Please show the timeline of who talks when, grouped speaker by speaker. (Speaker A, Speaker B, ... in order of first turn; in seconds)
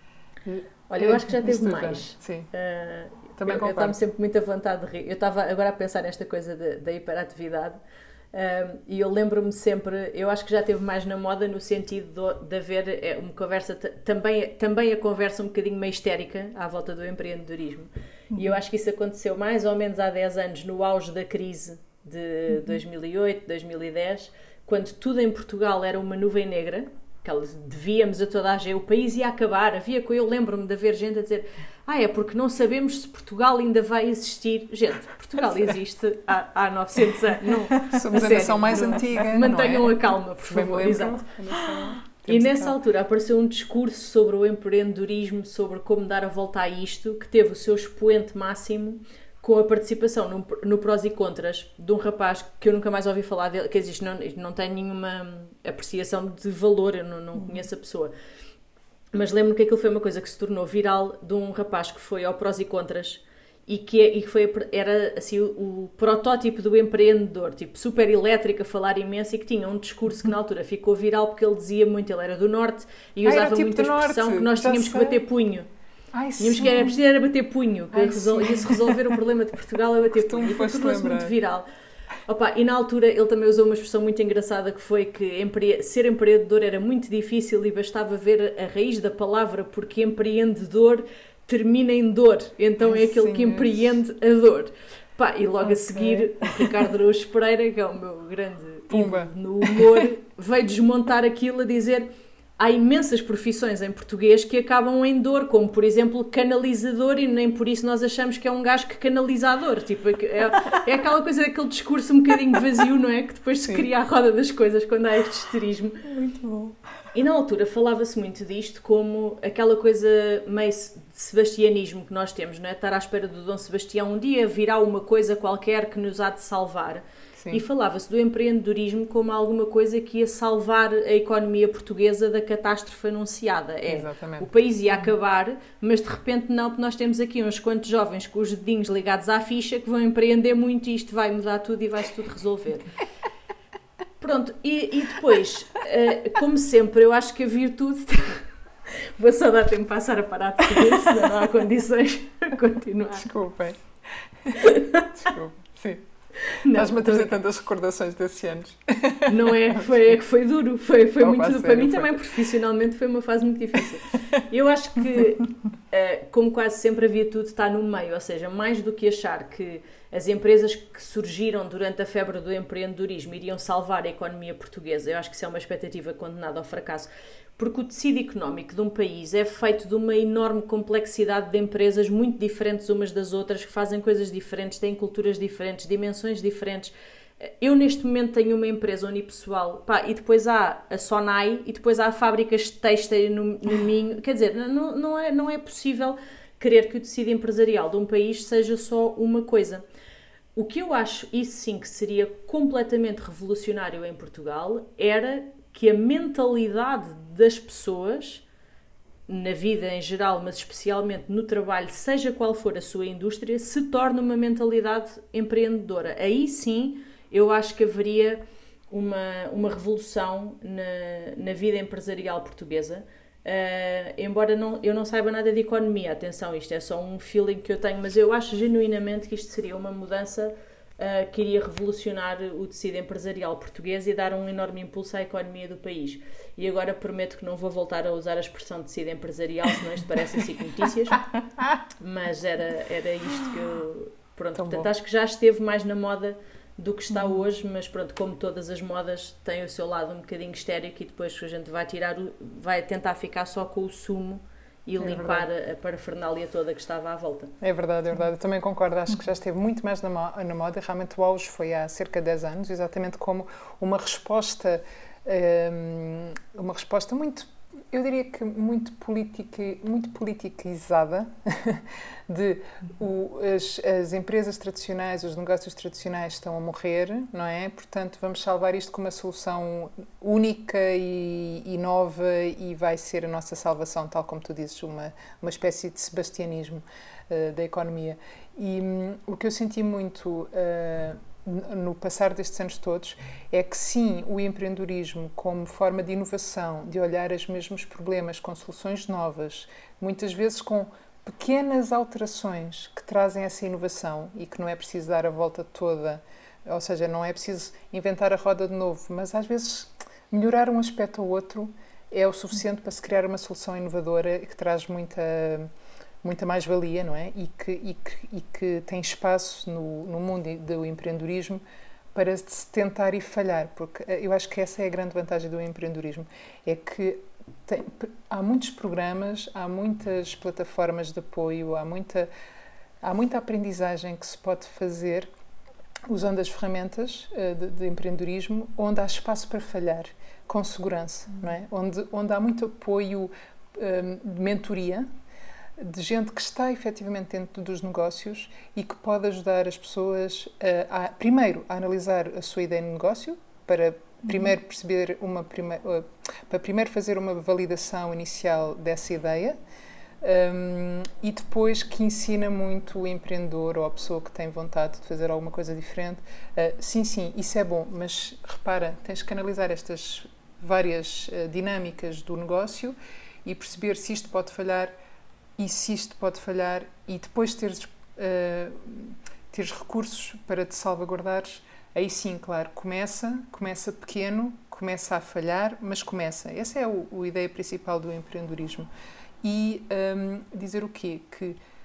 Speaker A: 0.4-2.5, 3.4-4.0, 37.9-42.8, 73.2-75.2, 76.1-77.0, 77.9-79.2, 80.1-81.3, 92.8-94.0, 98.9-99.3, 113.6-113.9, 127.4-127.6, 133.9-134.5, 153.1-156.1, 156.7-160.2, 161.2-162.2, 164.1-164.4, 244.6-244.9, 255.0-255.5, 257.6-315.7, 316.2-321.6, 322.1-332.3, 333.0-335.3, 336.1-345.1, 345.8-359.6, 360.2-374.9, 375.6-388.9, 389.4-391.6
Speaker B: 0.9-7.8, 8.3-41.2, 42.2-58.1, 59.1-75.7, 76.4-81.7, 82.2-116.0, 117.1-142.9, 144.2-153.3, 154.7-155.0, 156.5-157.3, 159.3-199.8, 200.5-208.4, 209.3-241.2, 242.0-257.5
Speaker C: 18.3-18.6, 22.5-22.8, 57.4-57.6, 95.6-96.7, 116.0-116.8